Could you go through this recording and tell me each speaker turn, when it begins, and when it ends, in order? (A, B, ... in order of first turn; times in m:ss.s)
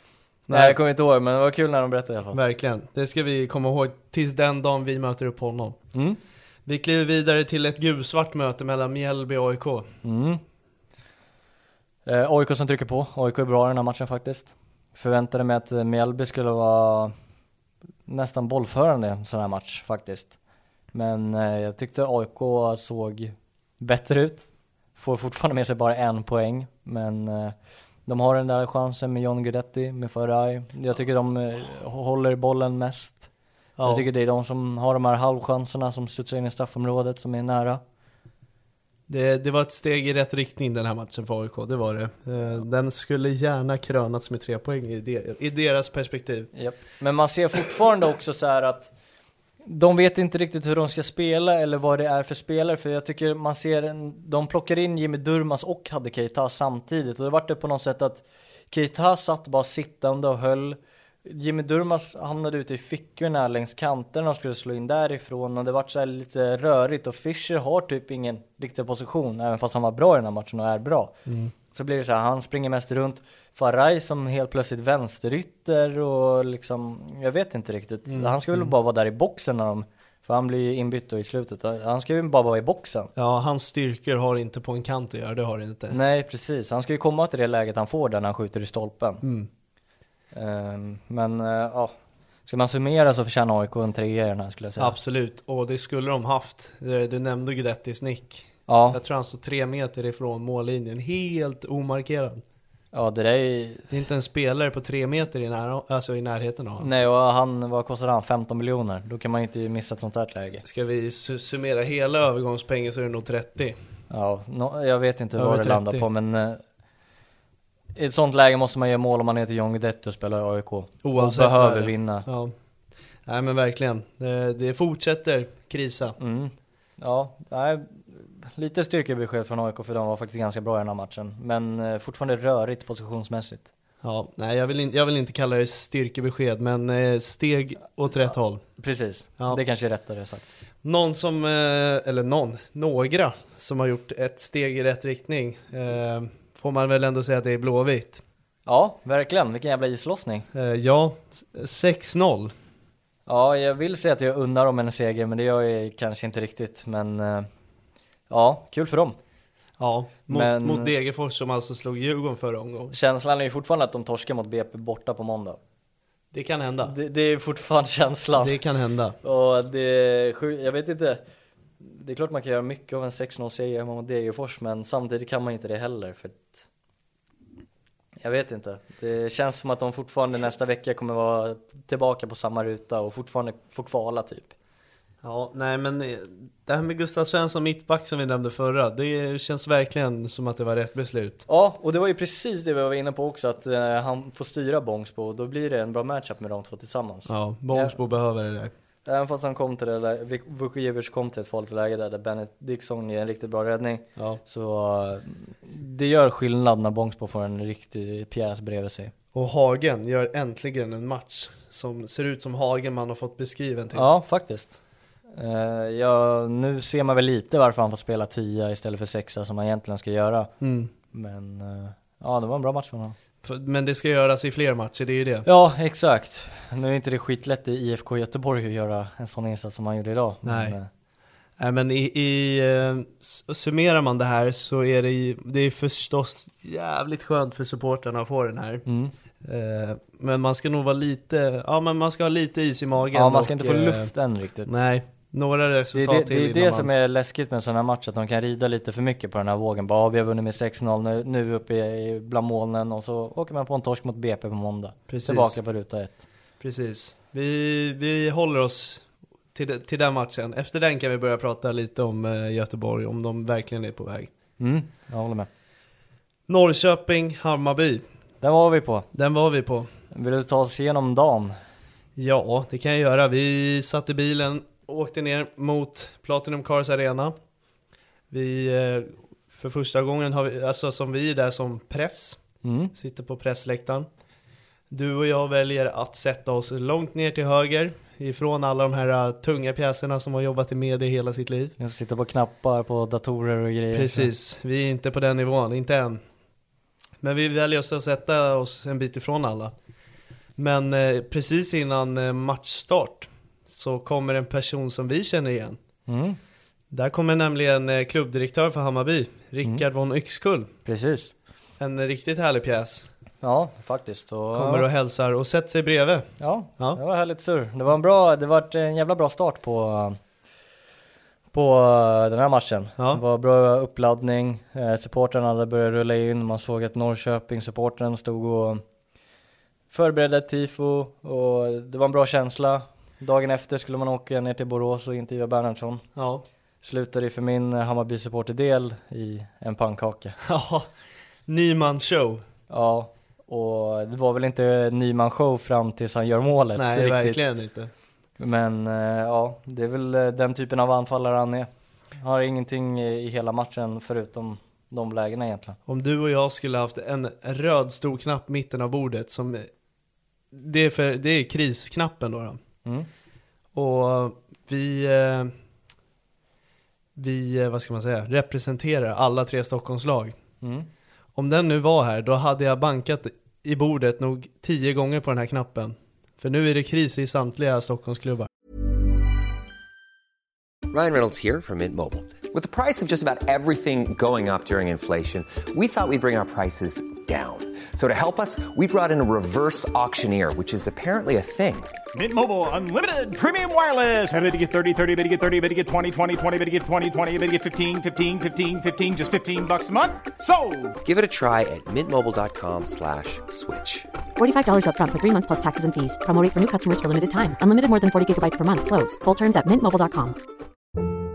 0:00.5-0:02.4 A
0:00.5-0:00.8 B
0:02.3-0:05.8 B
0:05.9-0:06.2 A
0:06.7-0:09.9 B
0:10.0-0:10.4 A
0:12.0-0:17.1 A
0:18.1-0:20.4 A
0:20.9-0:27.6 A
0:28.1-0:33.3 A
0:33.8-0:34.0 B
0:33.8-0:37.8 A
0:39.1-0:46.5 B
0:46.5-0:48.9 A
0:49.6-1:11.2 A
1:11.3-1:11.5 B
1:11.7-1:23.1 A
1:18.1-1:18.7 B
1:23.2-1:26.0 B
1:25.9-1:29.2 A
1:29.2-1:29.5 B
1:30.3-1:31.9 A
1:32.5-1:35.0 A
1:34.8-1:42.4 B
1:38.7-1:39.0 A
1:42.9-1:43.9 A
1:43.9-1:46.9 B
1:46.8-1:50.6 A
1:50.6-1:53.8 B
1:54.1-1:56.6 A
1:55.4-1:56.0 B
1:58.0-2:02.3 A
2:01.0-2:02.5 B
2:03.3-2:06.2 B
2:06.2-2:13.7 A
2:14.0-2:18.6 B
2:18.8-2:20.5 A
2:20.8-2:28.2 B
2:28.7-2:30.5 A
2:30.5-2:32.5 B
2:33.3-2:37.5 A
2:38.3-2:39.2 A
2:39.8-2:43.0 B
2:40.3-2:40.9 A
2:42.9-2:45.6 A
2:46.3-2:47.0 B
2:46.8-2:48.6 A
2:48.4-2:49.2 B
2:49.2-2:51.2 A
2:51.8-2:56.6 A
2:58.2-3:04.5 A
3:05.2-3:11.4 B
3:11.5-3:18.0 A
3:17.3-3:18.7 B
3:19.0-3:29.1 A
3:29.3-3:34.1 B
3:33.9-3:34.8 A
3:35.3-3:40.5 A
3:40.6-3:40.9 B
3:41.1-3:43.2 A
3:43.4-3:45.5 B
3:45.4-3:50.9 A
3:50.4-3:50.8 B
3:51.6-3:58.9 B
3:58.9-3:59.1 A
3:59.4-4:04.1 B
4:03.1-4:04.8 A
4:04.7-4:06.9 B
4:05.9-4:16.2 A
4:15.1-4:15.6 B
4:16.6-4:24.3 B
4:24.6-4:25.5 A
4:26.5-4:28.0 B
4:28.4-4:29.1 A
4:29.1-4:29.9 B
4:30.1-4:31.6 A
4:32.2-4:37.4 B
4:38.3-4:42.4 B
4:42.6-4:42.9 A
4:43.0-4:44.1 B
4:44.9-4:51.8 B
4:51.8-4:54.3 A
4:53.9-4:56.2 B
4:57.2-4:59.7 B
5:00.6-5:05.8 B
5:06.1-5:06.4 A
5:06.9-5:10.7 B
5:10.9-5:11.3 A
5:11.8-5:13.1 B
5:13.4-5:14.9 A
5:14.5-5:17.0 B
5:16.4-5:20.2 A
5:21.5-5:28.8 A
5:29.9-5:36.0 A
5:36.2-5:36.4 B
5:36.8-5:40.4 A
5:40.4-5:40.9 B
5:41.5-5:42.4 B
5:42.7-5:47.5 A
5:46.8-5:47.9 B
5:48.4-5:55.8 A
5:55.9-5:59.7 B
6:00.5-6:02.6 B
6:03.7-6:05.5 B
6:07.2-6:10.4 B
6:10.6-6:10.9 A
6:11.4-6:18.5 B
6:20.9-6:31.9 C
6:32.1-6:41.0 D
6:41.0-6:44.1 C
6:44.4-6:50.4 E